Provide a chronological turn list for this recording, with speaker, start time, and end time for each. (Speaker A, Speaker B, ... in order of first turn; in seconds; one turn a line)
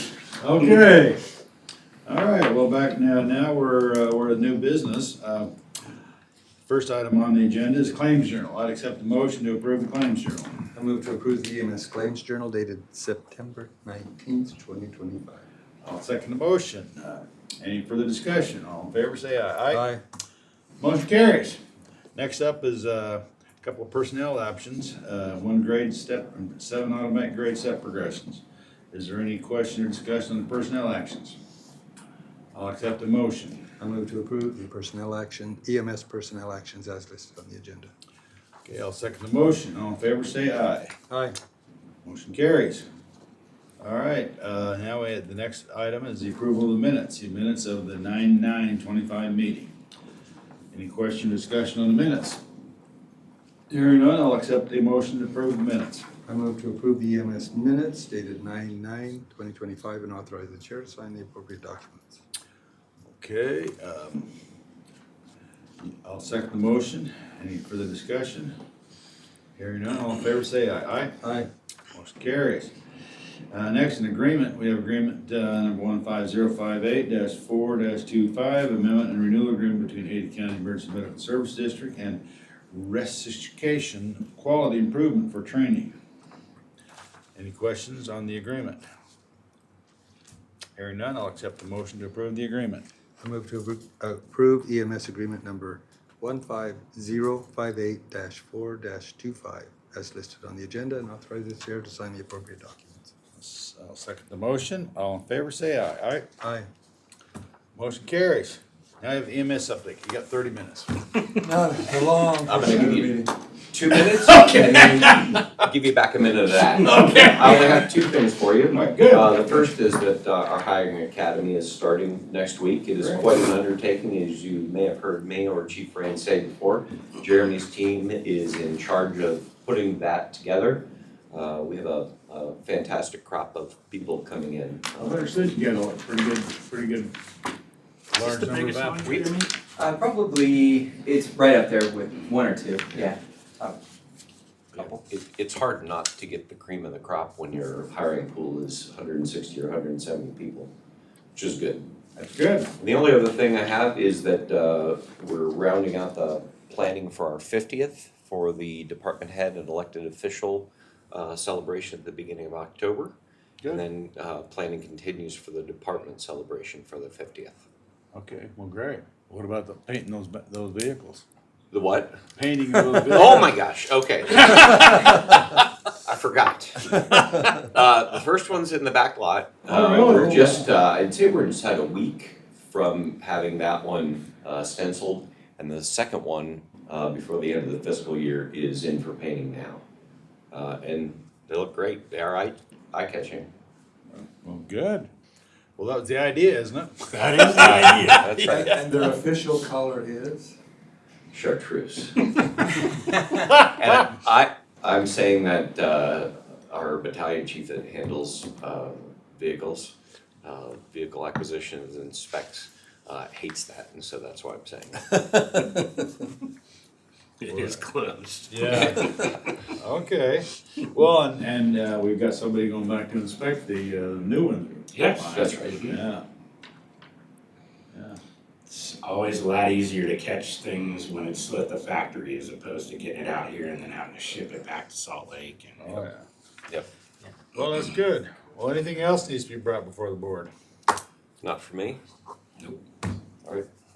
Speaker A: 0.4-1.2
Speaker A: 2.0-5.5
Speaker A: 6.7-10.6
Speaker B: 10.7-15.4
Speaker A: 15.8-19.8
Speaker B: 19.7-20.0
Speaker A: 20.8-21.6
Speaker A: 22.1-31.4
Speaker A: 32.5-33.6
Speaker B: 33.8-37.9
Speaker A: 38.6-40.9
Speaker B: 41.1-41.4
Speaker A: 42.0-42.8
Speaker A: 43.8-49.7
Speaker A: 50.7-52.4
Speaker A: 53.7-56.1
Speaker B: 56.3-62.2
Speaker A: 63.1-64.3
Speaker A: 66.0-68.5
Speaker A: 69.5-71.2
Speaker B: 71.2-71.5
Speaker A: 71.9-72.7
Speaker A: 73.5-85.9
Speaker A: 87.3-88.8
Speaker A: 90.8-92.9
Speaker B: 93.2-103.1
Speaker A: 103.3-106.2
Speaker B: 106.4-106.7
Speaker A: 107.7-110.9
Speaker B: 111.4-113.3
Speaker C: 112.5-135.3
Speaker B: 114.3-115.0
Speaker A: 116.8-117.5
Speaker A: 118.7-119.7
Speaker A: 135.0-137.1
Speaker A: 138.1-139.4
Speaker D: 138.9-139.4
Speaker E: 139.8-143.8
Speaker C: 144.8-150.7
Speaker C: 151.3-151.9
Speaker A: 152.2-152.7
Speaker C: 152.8-163.1
Speaker C: 163.7-167.6
Speaker A: 168.1-171.2
Speaker C: 171.7-172.2
Speaker A: 172.4-173.5
Speaker C: 173.1-175.4
Speaker A: 174.5-174.8
Speaker C: 176.0-189.8
Speaker A: 179.7-180.6
Speaker C: 190.5-193.5
Speaker A: 194.1-195.1
Speaker A: 195.8-198.2
Speaker D: 197.1-198.2
Speaker C: 198.1-198.8
Speaker B: 198.4-200.6
Speaker C: 201.3-202.7
Speaker C: 203.6-215.2
Speaker D: 217.4-219.6
Speaker A: 217.5-217.8
Speaker A: 218.5-219.2
Speaker A: 219.7-226.2
Speaker D: 224.9-226.0
Speaker C: 225.3-225.9
Speaker A: 227.9-228.2
Speaker D: 228.7-236.1
Speaker A: 235.8-236.2
Speaker A: 237.5-240.5
Speaker C: 241.4-242.0